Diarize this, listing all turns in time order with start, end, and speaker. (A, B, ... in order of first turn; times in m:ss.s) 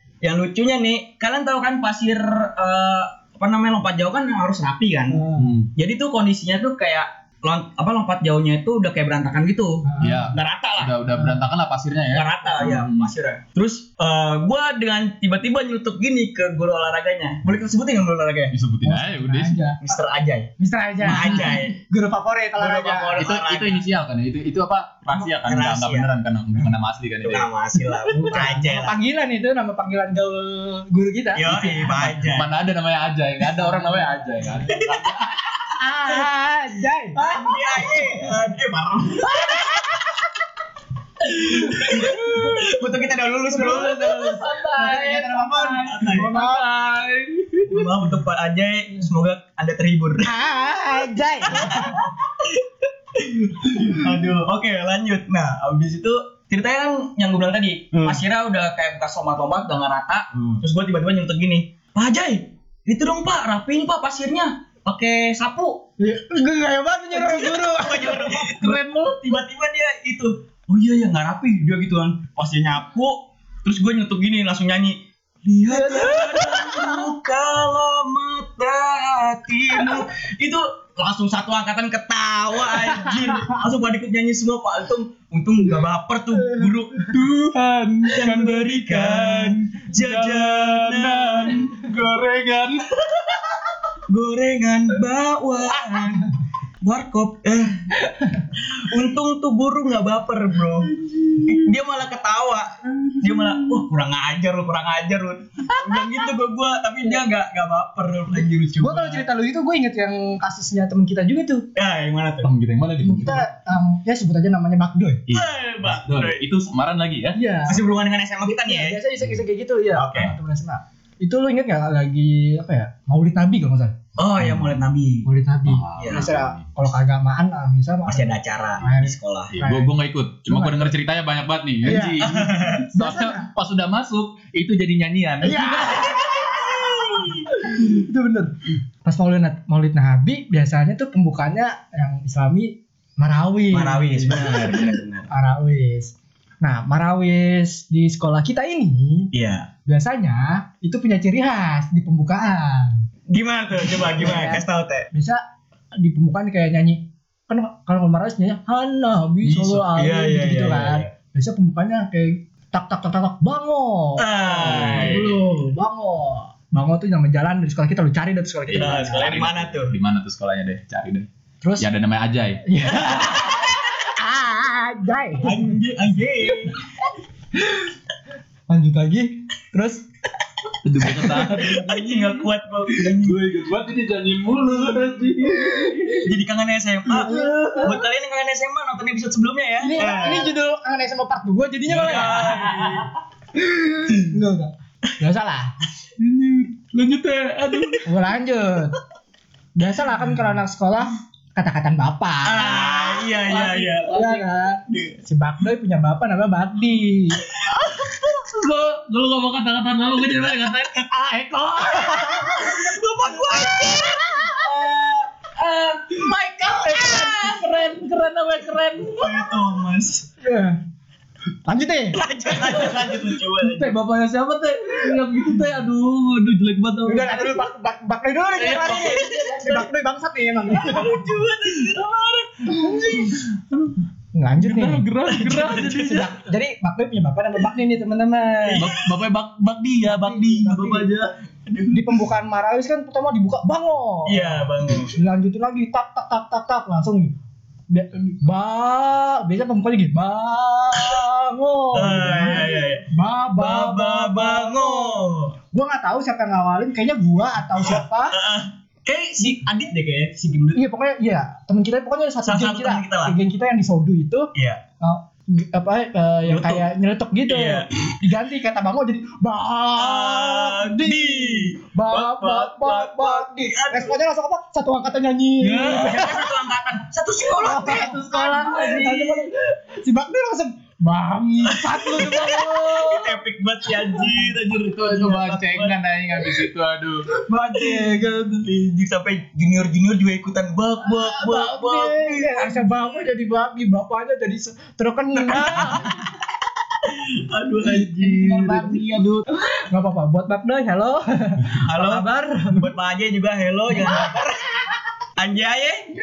0:00.2-0:05.2 A
0:05.1-0:05.5 B
0:05.4-0:05.7 C
0:05.8-0:11.0 A
0:09.8-0:10.3 B
0:10.0-0:13.1 C
0:12.1-0:18.5 A
0:18.5-0:19.6 C
0:18.8-0:20.0 B
0:19.8-0:20.5 A
0:20.6-0:23.2 B
0:21.0-0:21.8 A
0:21.1-0:21.6 C
0:22.6-0:23.9 A
0:23.2-0:27.5 C
0:25.1-0:26.1 A
0:27.2-0:29.0 A
0:28.1-0:32.1 B
0:31.4-0:32.5 A
0:31.8-0:35.5 C
0:33.6-0:34.7 B
0:34.7-0:35.0 A
0:35.8-0:38.0 B
0:37.2-0:39.6 A
0:39.5-0:40.0 B
0:41.3-0:44.0 A
0:41.7-0:42.5 C
0:41.8-0:42.5 B
0:43.5-0:46.7 B
0:43.5-0:48.1 C
0:45.6-0:46.3 A
0:47.7-0:50.3 A
0:50.2-0:52.0 B
0:51.5-1:05.9 A
1:06.0-1:08.8 B
1:07.1-1:27.1 A
1:15.7-1:17.1 B
1:22.8-1:23.6 B
1:26.4-1:26.7 B
1:27.1-1:33.6 C
1:28.1-1:31.7 A
1:34.1-1:37.9 A
1:38.2-1:38.5 B
1:38.6-1:49.2 A
1:48.8-1:51.7 B
1:51.8-1:52.5 A
1:52.4-1:53.5 C
1:53.0-1:55.2 B
1:55.3-1:57.4 C
1:55.3-1:56.4 A
1:57.3-1:57.9 B
1:57.7-1:59.0 A
1:58.5-2:04.0 B
2:00.0-2:00.3 A
2:04.2-2:05.3 A
2:04.4-2:04.7 C
2:05.3-2:09.9 B
2:05.7-2:06.7 C
2:06.0-2:06.3 A
2:08.1-2:09.5 A
2:09.5-2:16.3 C
2:10.5-2:10.9 B
2:11.8-2:12.3 B
2:12.2-2:12.9 A
2:12.9-2:13.5 B
2:15.4-2:16.9 B
2:16.5-2:17.4 A
2:17.5-2:24.5 B
2:23.7-2:25.3 A
2:25.3-2:29.3 B
2:29.3-2:29.7 A
2:29.9-2:33.0 B
2:33.3-2:35.1 A
2:33.9-2:35.4 B
2:36.0-2:49.4 B
2:39.5-2:41.1 A
2:44.2-2:45.3 A
2:44.6-2:45.4 C
2:48.7-2:53.4 C
2:48.8-2:50.0 A
2:51.6-2:51.9 B
2:52.6-2:55.7 B
2:55.4-2:56.8 A
2:58.7-3:00.0 B
3:00.8-3:06.3 C
3:01.1-3:01.8 B
3:01.5-3:03.4 A
3:04.8-3:05.0 B
3:06.2-3:10.5 A
3:07.2-3:07.9 C
3:07.2-3:08.0 B
3:09.8-3:12.8 B
3:11.9-3:13.1 A
3:12.6-3:13.1 C
3:13.6-3:15.7 B
3:16.2-3:18.1 C
3:18.0-3:19.0 B
3:19.8-3:22.9 B
3:22.4-3:24.1 A
3:22.6-3:24.5 C
3:24.1-3:27.4 B
3:24.9-3:25.2 A
3:28.0-3:32.8 C
3:32.0-3:35.3 A
3:33.6-3:34.7 C
3:35.6-3:39.6 C
3:36.9-3:37.6 A
3:39.2-3:40.3 A
3:40.4-3:40.8 B
3:41.7-3:42.2 B
3:42.2-3:43.9 A
3:42.6-3:47.7 C
3:47.1-3:51.2 B
3:48.6-3:49.7 C
3:48.8-3:49.8 A
3:50.7-3:53.3 A
3:52.7-3:54.0 C
3:54.3-3:55.0 B
3:54.6-3:56.3 C
3:55.3-3:56.3 A
3:55.8-3:58.9 B
3:58.6-3:59.0 A
3:58.8-4:01.3 C
4:00.1-4:01.1 B
4:01.7-4:02.0 A
4:01.9-4:07.3 B
4:04.3-4:05.2 A
4:07.9-4:18.4 B
4:11.0-4:11.2 A
4:11.9-4:15.5 A
4:17.8-4:20.8 A
4:20.8-4:36.3 B
4:22.4-4:23.4 A
4:24.6-4:24.8 A
4:26.5-4:26.8 A
4:27.5-4:28.1 A
4:30.0-4:34.1 A
4:35.6-4:36.5 C
4:35.9-4:38.2 A
4:37.6-4:39.5 C
4:37.6-4:43.4 B
4:41.7-4:46.0 A
4:42.1-4:42.7 C
4:43.9-4:44.4 B
4:44.7-4:47.3 C
4:47.4-4:48.7 B
4:47.7-4:52.9 A
4:51.0-4:56.2 B
4:55.5-4:56.3 A
4:57.0-4:59.3 A
4:57.8-4:59.4 B
4:59.9-5:02.9 B
5:01.8-5:04.7 A
5:04.0-5:04.5 B
5:05.4-5:06.1 A